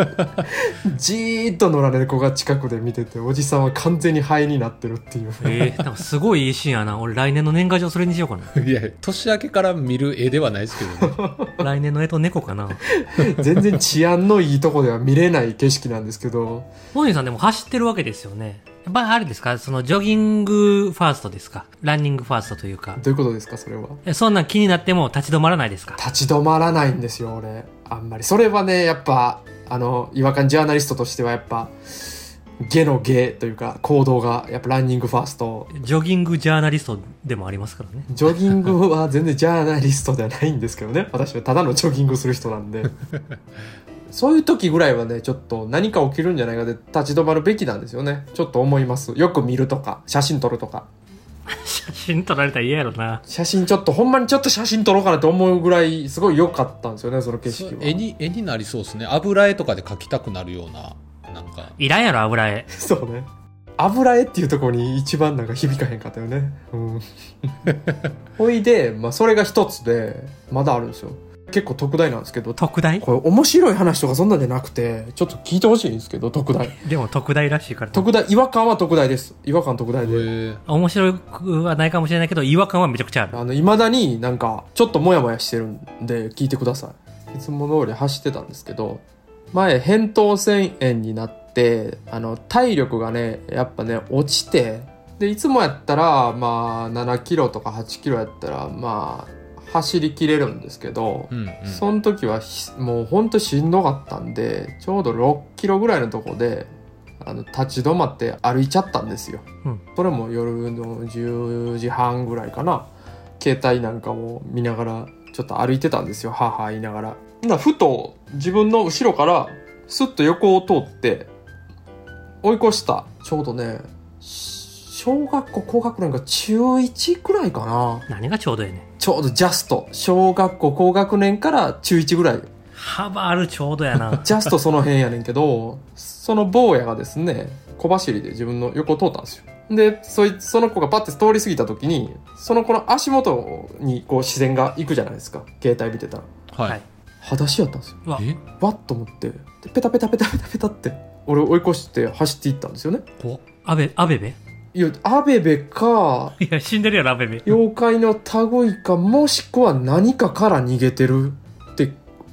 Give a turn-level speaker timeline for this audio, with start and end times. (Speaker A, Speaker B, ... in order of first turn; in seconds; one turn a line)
Speaker A: 0.4-5.7
Speaker B: 5.4-8.5
Speaker C: 8.5-11.2
Speaker A: 11.0-11.7
Speaker B: 11.6-12.8
Speaker A: 12.9-16.7
Speaker B: 16.9-23.0
Speaker A: 23.0-24.0
Speaker B: 24.0-26.0
Speaker A: 26.0-35.7
Speaker B: 35.7-38.1
Speaker A: 38.1-42.9
Speaker A: 44.1-50.9
Speaker B: 51.5-53.2
Speaker A: 53.2-58.0
Speaker C: 57.5-61.7
Speaker B: 61.8-62.7
Speaker A: 62.7-67.5
Speaker A: 68.4-76.8
Speaker B: 72.6-73.0
Speaker B: 76.7-78.1
Speaker A: 77.9-80.3
Speaker C: 80.0-80.6
Speaker B: 80.7-83.4
Speaker A: 83.3-112.9
Speaker C: 101.3-101.8
Speaker A: 113.4-121.3
Speaker A: 122.4-128.1
Speaker B: 128.1-128.8
Speaker A: 129.0-132.5
Speaker B: 132.8-134.3
Speaker A: 134.2-146.3
Speaker C: 146.5-146.8
Speaker A: 147.2-148.0
Speaker C: 148.2-148.4
Speaker A: 148.6-153.0
Speaker B: 153.6-154.4
Speaker A: 154.7-156.3
Speaker B: 156.4-157.5
Speaker A: 157.4-162.0